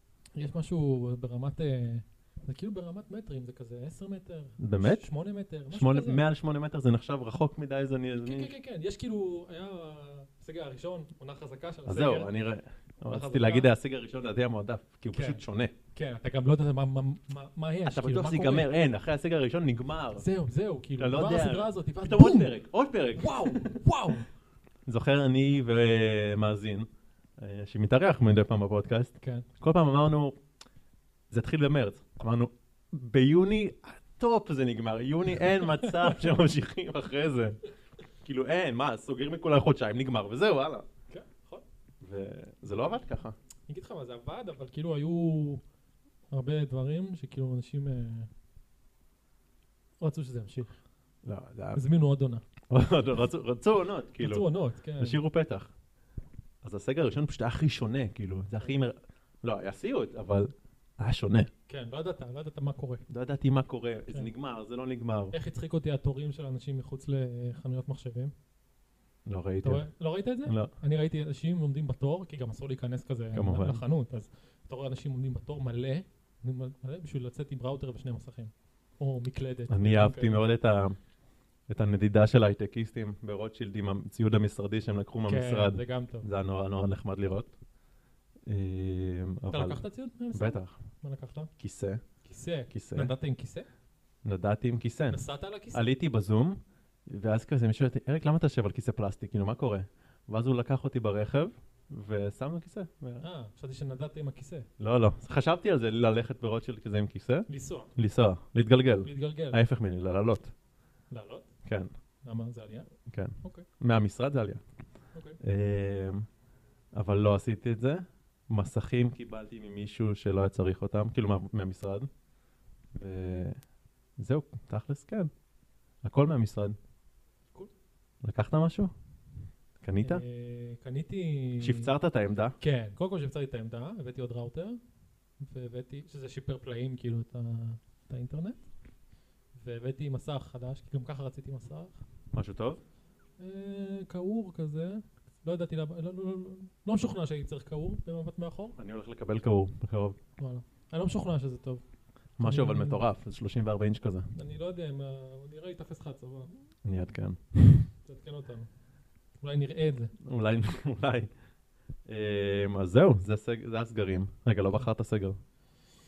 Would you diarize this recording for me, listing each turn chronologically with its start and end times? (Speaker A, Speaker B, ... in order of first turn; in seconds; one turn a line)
Speaker A: 0.3-6.2
Speaker B: 4.6-5.0
Speaker B: 5.7-8.5
Speaker A: 8.2-12.3
Speaker B: 11.9-15.7
Speaker A: 13.0-13.7
Speaker A: 15.1-15.4
Speaker A: 15.9-18.7
Speaker B: 17.9-20.2
Speaker A: 20.1-22.5
Speaker B: 21.0-23.6
Speaker A: 23.1-24.3
Speaker B: 24.9-30.4
Speaker A: 29.2-29.4
Speaker B: 31.3-37.6
Speaker A: 35.8-36.1
Speaker B: 38.2-40.9
Speaker A: 41.1-41.6
Speaker B: 42.0-43.3
Speaker A: 43.7-45.6
Speaker A: 46.3-48.3
Speaker A: 50.0-50.8
Speaker B: 51.2-51.8
Speaker A: 51.7-52.4
Speaker B: 52.7-54.5
Speaker A: 54.2-55.2
Speaker B: 55.0-55.7
Speaker B: 56.6-61.5
Speaker A: 61.7-63.0
Speaker B: 63.1-65.3
Speaker A: 65.3-68.3
Speaker B: 69.2-69.8
Speaker A: 69.6-80.4
Speaker B: 70.5-70.7
Speaker B: 73.3-73.8
Speaker B: 79.7-81.0
Speaker B: 81.7-87.5
Speaker A: 85.3-86.3
Speaker B: 88.5-89.8
Speaker A: 89.5-91.5
Speaker B: 90.3-90.7
Speaker B: 91.6-92.0
Speaker A: 92.2-93.7
Speaker B: 92.7-93.1
Speaker B: 94.2-95.2
Speaker A: 95.1-95.8
Speaker B: 95.7-103.2
Speaker A: 103.2-104.7
Speaker B: 104.8-110.5
Speaker A: 107.5-107.9
Speaker A: 109.0-109.6
Speaker A: 111.1-111.5
Speaker A: 112.2-112.9
Speaker B: 113.1-114.6
Speaker A: 115.1-115.4
Speaker B: 115.4-116.2
Speaker B: 116.9-122.1
Speaker B: 122.9-123.6
Speaker B: 124.2-125.3
Speaker B: 126.0-126.8
Speaker B: 128.2-128.9
Speaker B: 129.8-130.2
Speaker A: 130.0-131.9
Speaker B: 131.6-132.6
Speaker A: 132.6-134.8
Speaker A: 135.4-138.6
Speaker A: 139.6-142.0
Speaker B: 142.3-142.8
Speaker A: 143.4-148.8
Speaker B: 148.8-150.2
Speaker A: 150.4-151.8
Speaker B: 152.4-154.3
Speaker A: 152.4-153.0
Speaker A: 154.3-156.6
Speaker B: 156.8-157.9
Speaker A: 158.0-158.7
Speaker A: 159.4-160.1
Speaker B: 160.2-161.3
Speaker B: 162.1-165.4